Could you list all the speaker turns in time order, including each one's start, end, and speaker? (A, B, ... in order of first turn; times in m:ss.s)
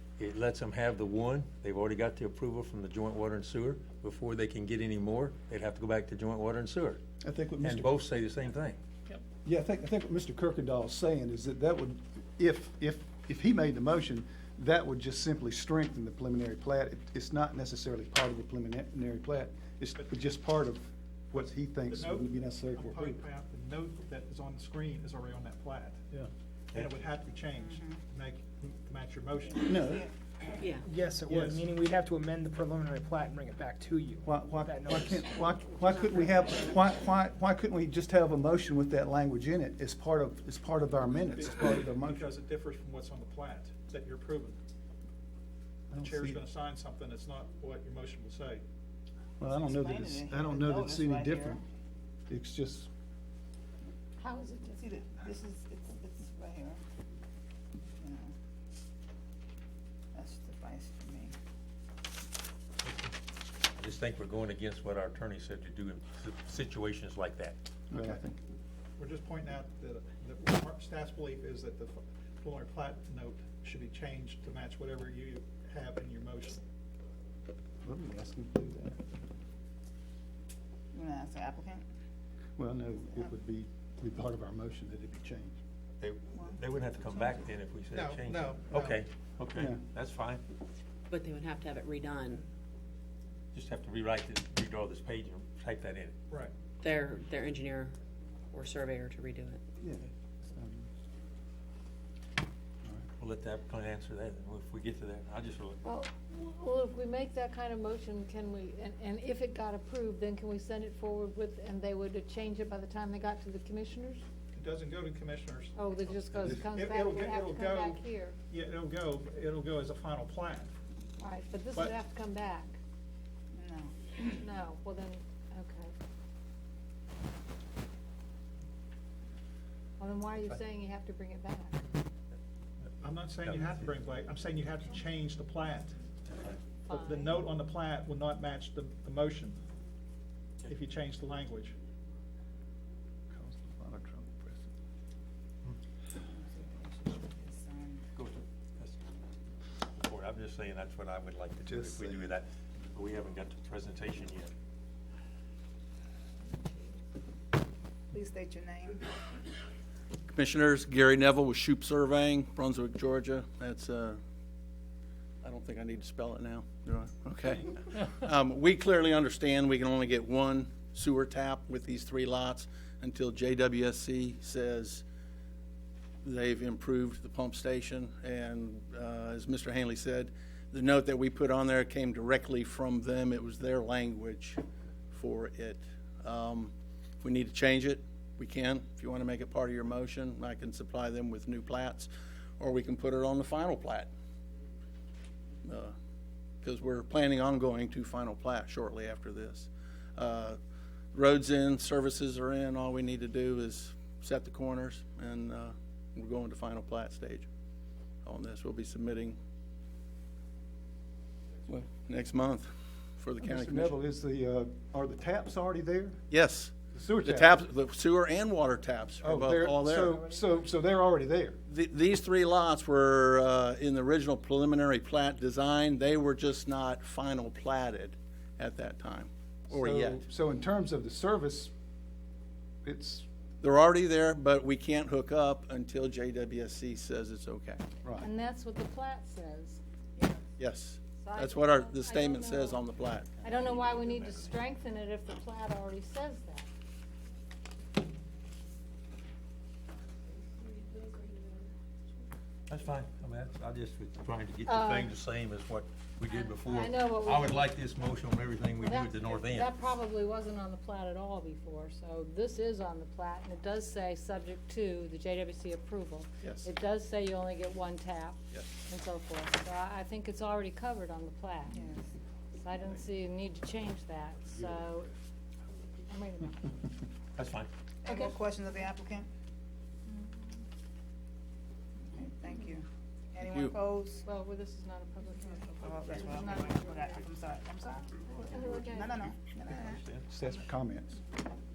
0:00.2-0:07.0 A
0:07.2-0:08.0 B
0:07.6-0:08.8 A
0:09.4-0:23.2 B
0:21.9-0:26.1 C
0:26.7-0:29.8 C
0:27.6-0:28.0 D
0:29.6-0:30.1 D
0:29.7-0:30.1 B
0:30.8-0:35.6 E
0:31.3-0:31.6 C
0:34.2-0:42.4 B
0:41.2-0:44.6 C
0:45.9-0:46.4 B
0:46.0-0:48.6 C
0:49.4-0:51.6 B
0:49.4-0:51.6 D
0:52.3-0:52.9 B
0:54.2-0:55.1 F
0:54.7-0:56.8 D
0:58.0-0:58.3 D
1:00.1-1:01.3 D
1:03.8-1:07.6 A
1:07.9-1:08.3 B
1:09.0-1:16.6 C
1:17.8-1:19.0 B
1:20.9-1:21.8 D
1:22.6-1:25.6 B
1:26.0-1:30.4 A
1:26.4-1:27.4 D
1:27.9-1:29.0 C
1:31.1-1:32.5 G
1:33.5-1:36.2 A
1:36.8-1:38.0 G
1:38.5-1:39.6 G
1:39.8-1:40.9 B
1:43.2-1:45.8 A
1:45.8-1:54.2 F
1:54.5-1:55.7 C
1:55.8-1:58.4 F
1:56.4-2:00.7 C
2:01.2-2:02.8 F
2:03.5-2:04.4 D
2:04.4-2:05.9 F
2:10.0-2:11.8 F
2:13.0-2:16.0 C
2:16.3-2:16.6 A
2:16.8-2:19.6 C
2:16.9-2:17.4 F
2:20.7-2:21.8 C
2:23.3-2:24.7 B
2:26.2-2:28.1 D
2:28.2-2:29.0 A
2:29.9-2:34.5 A
2:31.6-2:32.3 B
2:38.1-2:39.0 D
2:40.3-2:44.2 H
2:45.4-2:55.0 H
2:56.2-3:14.1 H
3:15.6-3:15.9 H
3:16.6-3:20.6 H
3:21.1-3:27.5 H
3:28.2-3:29.4 H
3:31.7-3:33.9 H
3:33.4-3:36.2 B
3:36.3-3:40.2 H
3:36.9-3:37.6 B
3:39.2-3:41.6 B
3:39.9-3:40.6 D
3:41.7-3:50.2 H
3:49.7-3:51.7 B
3:52.8-3:53.3 B
3:53.6-3:57.8 H
3:58.0-3:58.3 B
3:58.2-3:59.8 F
4:00.2-4:00.4 D
4:00.6-4:03.3 H
4:01.2-4:02.8 F
4:03.4-4:06.7 F
4:12.7-4:19.7 A
4:14.7-4:15.1 F
4:16.3-4:17.6 F
4:18.8-4:31.8 F
4:26.4-4:26.7 H
4:31.7-4:32.1 D
4:32.5-4:35.1 F
4:36.1-4:36.7 F
4:37.4-4:37.7 A
4:38.0-4:39.3 D
4:38.1-4:38.3 F
4:40.1-4:40.6 F
4:42.0-4:44.3 D
4:43.4-4:43.8 H
4:44.2-4:47.0 F
4:45.8-4:47.3 A
4:45.8-4:50.0 D
4:48.5-4:49.2 F
4:49.6-4:50.3 A
4:50.3-4:51.2 B